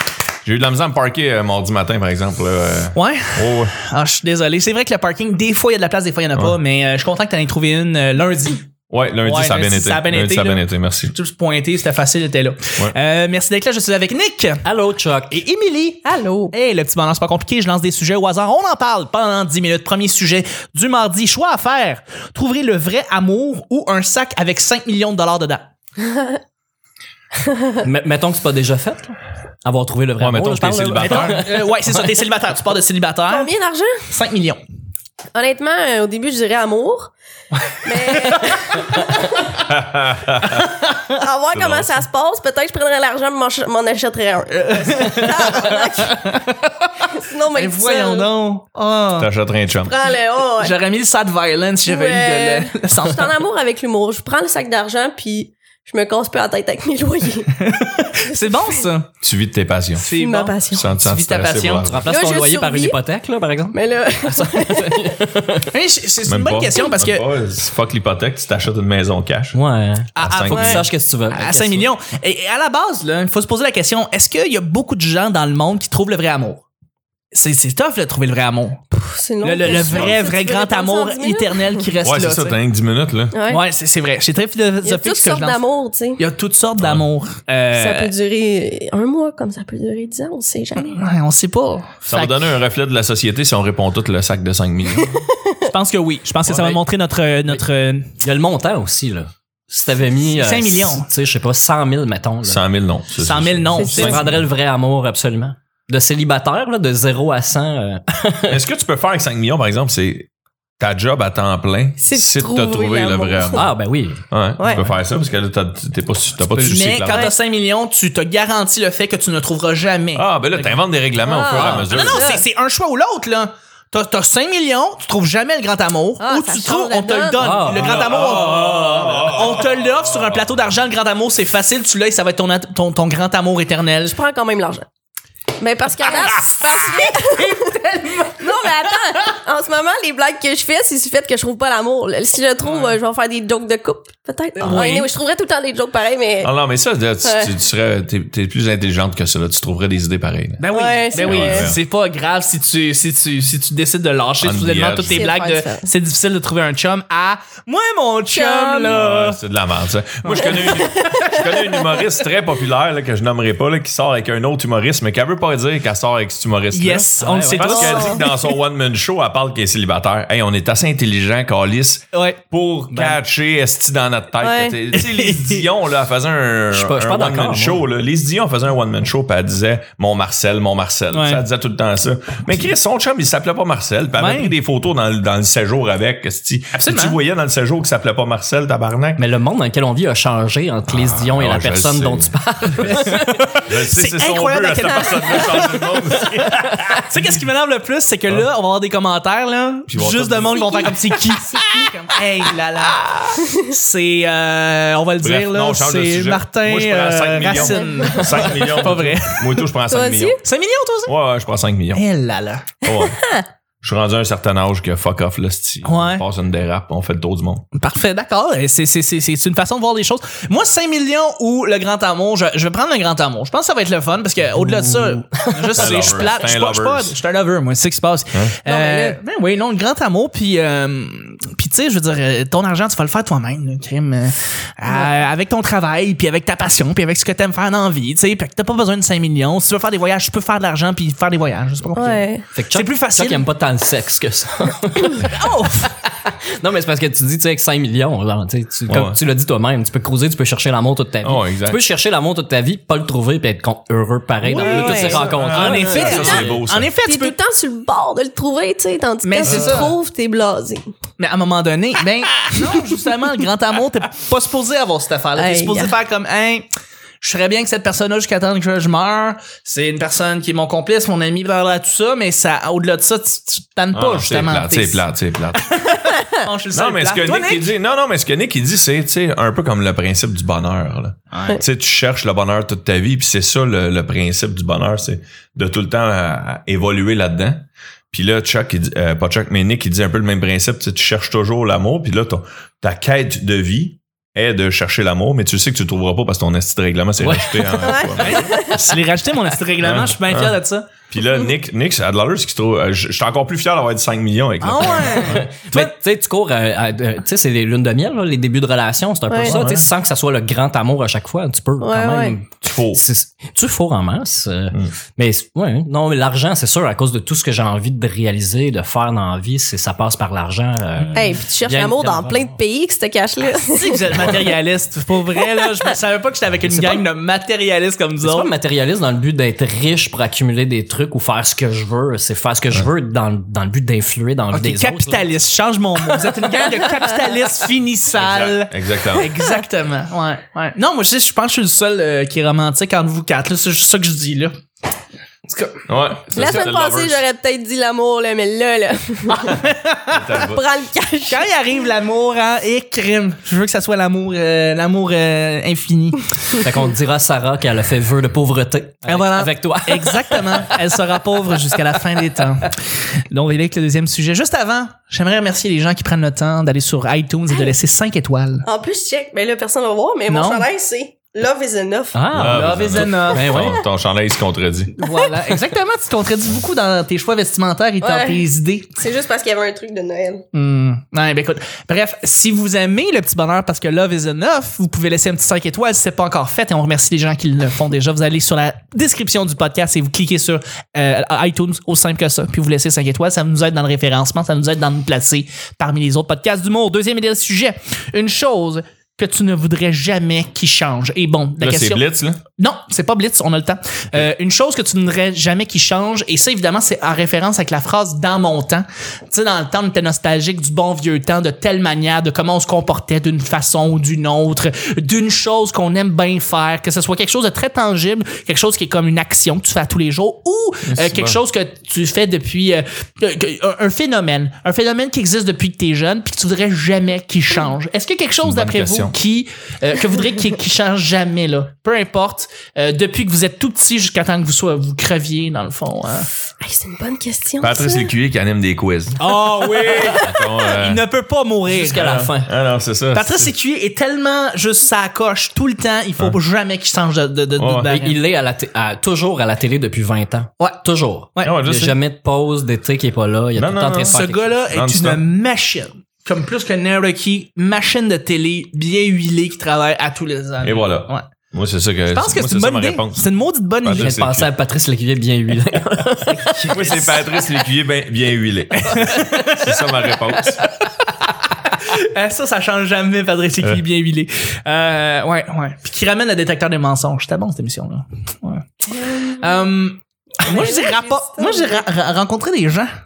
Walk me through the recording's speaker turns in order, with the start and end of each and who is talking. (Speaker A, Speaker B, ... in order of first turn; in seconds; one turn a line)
Speaker A: 0.4-3.7
Speaker B: 2.9-8.7
Speaker A: 8.9-11.1
Speaker B: 9.2-14.6
Speaker C: 14.6-15.4
Speaker B: 15.3-25.6
Speaker D: 16.0-16.5
Speaker D: 26.0-26.4
Speaker D: 27.4-27.7
Speaker C: 27.8-31.6
Speaker A: 30.2-31.5
Speaker B: 31.0-33.5
Speaker D: 33.3-34.1
Speaker B: 34.1-34.6
Speaker D: 35.3-37.1
Speaker D: 37.8-39.6
Speaker B: 38.2-39.1
Speaker A: 39.7-40.5
Speaker D: 40.8-46.2
Speaker A: 41.5-41.9
Speaker B: 44.7-46.8
Speaker D: 47.1-48.3
Speaker B: 47.5-49.3
Speaker A: 49.2-50.0
Speaker D: 49.8-50.7
Speaker B: 50.5-53.4
Speaker D: 51.9-57.6
Speaker B: 57.6-59.1
Speaker A: 59.2-60.1
Speaker B: 60.0-62.0
Speaker D: 60.2-60.9
Speaker A: 60.7-62.1
Speaker C: 61.8-65.7
Speaker D: 62.0-63.0
Speaker D: 63.7-65.1
Speaker B: 65.7-67.2
Speaker A: 66.3-69.6
Speaker C: 69.5-71.9
Speaker B: 70.2-70.6
Speaker A: 70.2-70.9
Speaker D: 70.5-70.8
Speaker B: 71.3-76.6
Speaker B: 77.3-78.8
Speaker D: 78.9-81.8
Speaker B: 79.4-82.6
Speaker A: 79.7-80.2
Speaker A: 82.0-83.4
Speaker D: 83.3-83.6
Speaker B: 83.5-85.6
Speaker D: 84.8-86.2
Speaker B: 86.2-88.1
Speaker A: 86.8-87.0
Speaker D: 87.7-91.0
Speaker B: 90.8-92.4
Speaker A: 92.0-95.2
Speaker D: 95.0-95.5
Speaker B: 95.6-98.1
Speaker C: 96.5-96.8
Speaker C: 98.2-102.6
Speaker B: 100.3-101.1
Speaker A: 102.4-104.4
Speaker B: 103.2-104.3
Speaker D: 103.8-104.1
Speaker C: 103.8-108.6
Speaker A: 108.5-110.3
Speaker A: 110.8-113.6
Speaker D: 112.0-113.7
Speaker C: 113.5-114.2
Speaker A: 114.3-117.3
Speaker D: 114.6-114.8
Speaker B: 116.5-120.8
Speaker D: 117.0-117.3
Speaker A: 120.1-122.3
Speaker D: 121.2-122.4
Speaker B: 121.4-134.2
Speaker D: 126.2-127.5
Speaker C: 127.4-128.0
Speaker A: 127.7-130.4
Speaker D: 134.1-134.8
Speaker D: 135.6-146.5
Speaker B: 137.2-138.5
Speaker B: 142.6-143.0
Speaker B: 144.6-145.1
Speaker A: 144.6-145.0
Speaker A: 146.4-150.6
Speaker D: 147.2-147.5
Speaker B: 150.6-159.4
Speaker D: 150.7-151.7
Speaker A: 151.2-151.8
Speaker A: 154.4-155.3
Speaker D: 155.1-155.9
Speaker D: 158.3-159.0
Speaker A: 158.9-189.2
Speaker B: 160.2-161.4
Speaker D: 160.4-161.3
Speaker B: 166.7-168.2
Speaker C: 167.2-168.2
Speaker C: 172.9-173.2
Speaker D: 174.4-174.7
Speaker B: 174.9-175.6
Speaker C: 176.7-177.8
Speaker B: 181.1-181.4
Speaker B: 184.1-184.5
Speaker B: 186.7-187.2
Speaker C: 189.2-193.4
Speaker A: 190.9-193.1
Speaker B: 193.1-195.8
Speaker A: 193.6-197.2
Speaker D: 194.8-195.7
Speaker B: 197.1-209.7
Speaker A: 199.9-200.8
Speaker D: 200.4-202.0
Speaker A: 205.2-210.4
Speaker D: 207.6-208.4
Speaker D: 209.9-210.4
Speaker B: 210.4-211.1
Speaker A: 211.1-212.0
Speaker B: 211.9-212.8
Speaker A: 212.8-213.2
Speaker D: 212.9-213.4
Speaker A: 213.8-217.6
Speaker B: 215.8-216.2
Speaker B: 217.8-243.4
Speaker C: 224.6-226.1
Speaker A: 225.8-227.1
Speaker D: 228.7-229.2
Speaker D: 241.9-242.4
Speaker C: 242.5-256.5
Speaker B: 245.2-245.9
Speaker A: 248.9-249.2
Speaker A: 251.2-251.8
Speaker B: 254.4-257.3
Speaker D: 254.6-255.2
Speaker A: 254.6-256.9
Speaker D: 256.1-256.5
Speaker D: 257.0-260.9
Speaker B: 259.2-259.9
Speaker A: 259.4-259.8
Speaker B: 261.2-266.6
Speaker D: 265.4-265.9
Speaker B: 267.2-275.1
Speaker A: 273.9-275.7
Speaker B: 275.6-277.7
Speaker A: 276.7-298.4
Speaker B: 281.3-281.6
Speaker C: 297.2-298.6
Speaker D: 297.8-298.8
Speaker B: 298.2-300.9
Speaker A: 299.8-300.6
Speaker A: 301.1-305.4
Speaker B: 304.6-305.9
Speaker C: 304.8-322.6
Speaker D: 309.3-309.6
Speaker A: 309.4-309.9
Speaker D: 311.8-312.4
Speaker A: 312.6-313.0
Speaker D: 321.1-324.4
Speaker B: 323.6-328.5
Speaker C: 326.7-327.0
Speaker C: 328.2-335.2
Speaker B: 334.5-344.5
Speaker A: 338.1-339.3
Speaker B: 345.5-345.8
Speaker A: 345.9-347.2
Speaker D: 346.3-349.6
Speaker B: 349.4-350.4
Speaker A: 350.1-350.6
Speaker D: 350.4-351.4
Speaker B: 351.3-356.3
Speaker C: 356.5-360.9
Speaker B: 359.0-362.7
Speaker B: 363.3-368.6
Speaker D: 368.6-372.2
Speaker B: 370.3-370.7
Speaker C: 372.1-373.8
Speaker A: 372.3-374.9
Speaker B: 372.4-373.6
Speaker B: 375.0-379.0
Speaker D: 378.0-378.4
Speaker D: 379.0-380.4
Speaker B: 380.5-402.0
Speaker A: 401.6-402.4
Speaker B: 402.6-436.3
Speaker A: 420.9-421.4
Speaker A: 428.4-429.1
Speaker D: 436.6-438.1
Speaker A: 437.6-441.0
Speaker B: 439.2-442.1
Speaker C: 441.7-442.5
Speaker A: 441.9-443.5
Speaker B: 443.1-448.2
Speaker A: 447.6-447.9
Speaker C: 447.9-454.6
Speaker A: 451.4-451.9
Speaker A: 453.6-455.2
Speaker B: 454.1-461.2
Speaker A: 460.6-463.3
Speaker B: 462.1-464.1
Speaker A: 463.8-464.5
Speaker C: 463.9-466.6
Speaker B: 466.2-467.2
Speaker A: 466.7-470.6
Speaker B: 468.8-470.0
Speaker B: 471.8-482.9
Speaker D: 480.4-481.8